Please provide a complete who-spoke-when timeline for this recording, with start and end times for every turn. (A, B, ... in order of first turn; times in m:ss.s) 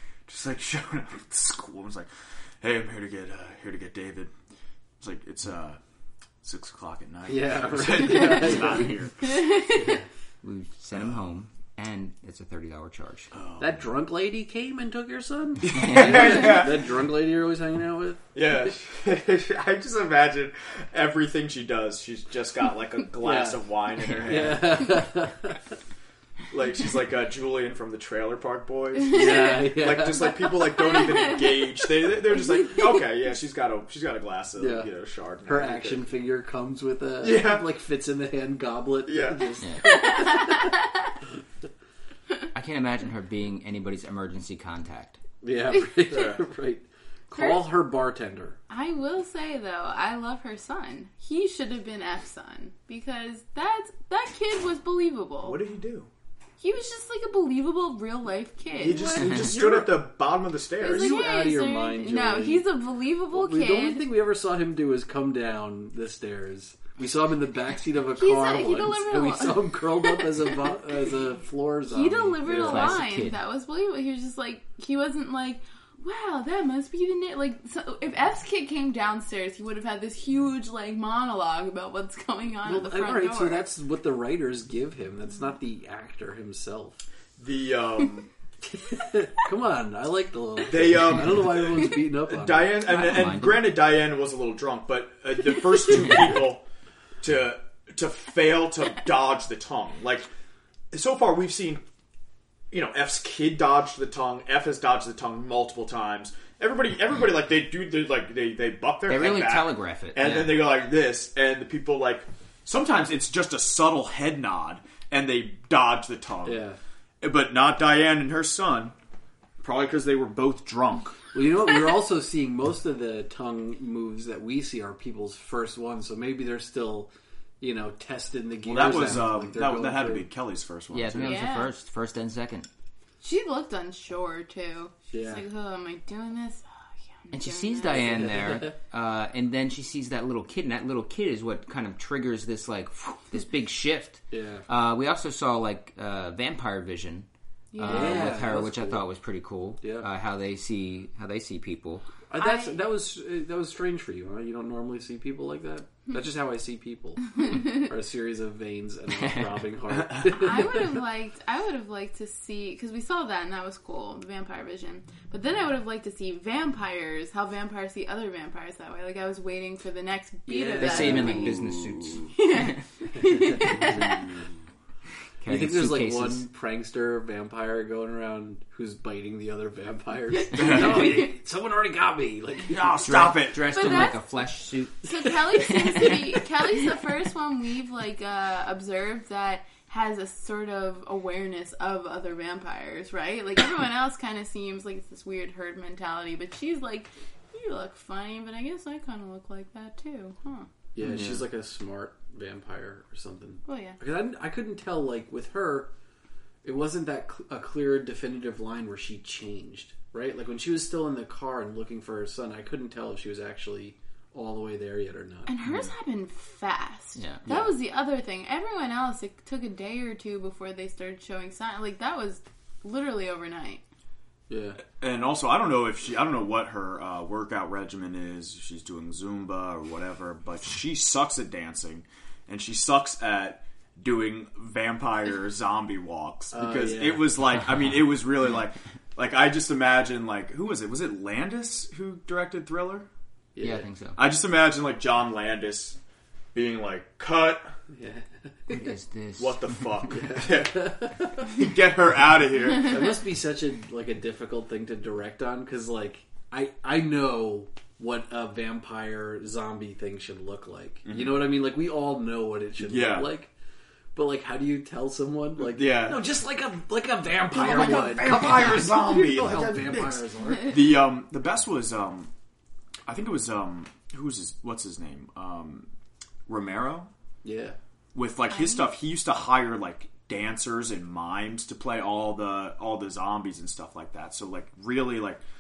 0:00.3-0:02.1 A
0:02.6-0:04.3 A
0:05.0-0:05.8 A
0:06.4-0:09.4 A
0:07.3-0:09.0 B
0:09.2-0:10.0 C
0:10.4-0:13.3 D
0:13.3-0:13.8 A
0:13.6-0:18.3 B
0:15.6-0:17.0 A
0:15.7-0:16.5 D
0:18.4-0:24.9 A
0:23.2-0:23.6 B
0:24.2-0:25.6 B
0:26.5-0:36.1 A
0:29.1-0:30.3 B
0:30.0-0:31.8 C
0:34.6-0:34.9 B
0:35.4-0:40.8 B
0:37.2-0:37.7 A
0:39.1-0:39.5 A
0:39.8-0:40.9 C
0:42.5-0:45.2 D
0:45.4-0:48.6 B
0:45.7-0:46.1 C
0:46.1-0:46.4 A
0:47.3-0:47.7 C
0:48.7-0:55.6 C
0:55.4-0:56.1 A
0:56.6-0:59.6 C
0:58.8-1:01.2 A
0:59.3-1:00.0 B
1:00.8-1:04.1 C
1:00.8-1:02.6 B
1:03.3-1:13.1 B
1:08.2-1:10.9 C
1:11.9-1:23.7 C
1:12.5-1:13.4 D
1:22.6-1:27.0 B
1:27.4-1:28.3 A
1:28.8-1:32.8 B
1:30.7-1:36.6 A
1:32.8-1:33.7 D
1:37.2-1:40.3 A
1:40.9-1:41.8 A
1:42.7-1:56.6 A
1:49.1-1:50.6 D
1:56.4-1:56.8 B
1:57.2-1:59.0 A
1:59.6-2:01.2 A
2:01.3-2:10.3 B
2:08.7-2:11.4 A
2:10.9-2:12.7 D
2:11.2-2:11.7 C
2:13.2-2:18.3 C
2:15.1-2:15.4 B
2:17.3-2:27.3 D
2:17.9-2:18.8 B
2:24.3-2:24.6 B
2:27.7-2:28.5 C
2:27.8-2:32.0 D
2:27.8-2:29.0 B
2:29.8-2:30.1 B
2:32.3-2:41.0 B
2:32.4-2:32.8 C
2:37.4-2:37.7 C
2:39.2-2:39.5 D
2:39.9-2:40.3 A
2:40.3-2:51.6 C
2:50.5-2:51.5 B
2:50.8-2:52.7 D
2:51.2-2:52.3 A
2:52.3-2:54.3 C
2:53.5-2:53.9 B
2:53.7-2:54.5 A
2:55.4-2:56.5 D
2:55.5-3:02.9 B
3:00.5-3:01.2 A
3:00.6-3:01.2 C
3:02.7-3:03.7 A
3:02.8-3:06.5 D
3:03.7-3:04.3 C
3:05.0-3:20.7 C
3:20.9-3:25.9 B
3:21.0-3:21.5 A
3:23.7-3:24.0 C
3:26.6-3:35.5 B
3:35.5-3:43.8 C
3:37.2-3:37.4 D
3:37.5-3:37.7 B
3:44.5-3:44.8 B
3:44.8-4:03.1 A
3:56.5-3:57.3 B
4:03.6-4:03.9 B
4:03.6-4:04.2 D
4:04.2-4:06.0 A
4:06.5-4:07.7 A
4:07.9-4:08.8 B
4:08.7-4:09.9 D
4:09.4-4:13.1 A
4:10.1-4:11.5 B
4:12.8-4:23.5 B
4:21.1-4:21.4 A
4:22.8-4:23.3 A
4:24.2-4:30.8 B
4:25.6-4:26.2 A
4:27.5-4:32.3 A
4:33.1-4:35.9 A
4:36.5-4:37.1 A
4:37.4-4:37.8 B
4:38.2-4:45.4 A
4:38.5-4:38.8 C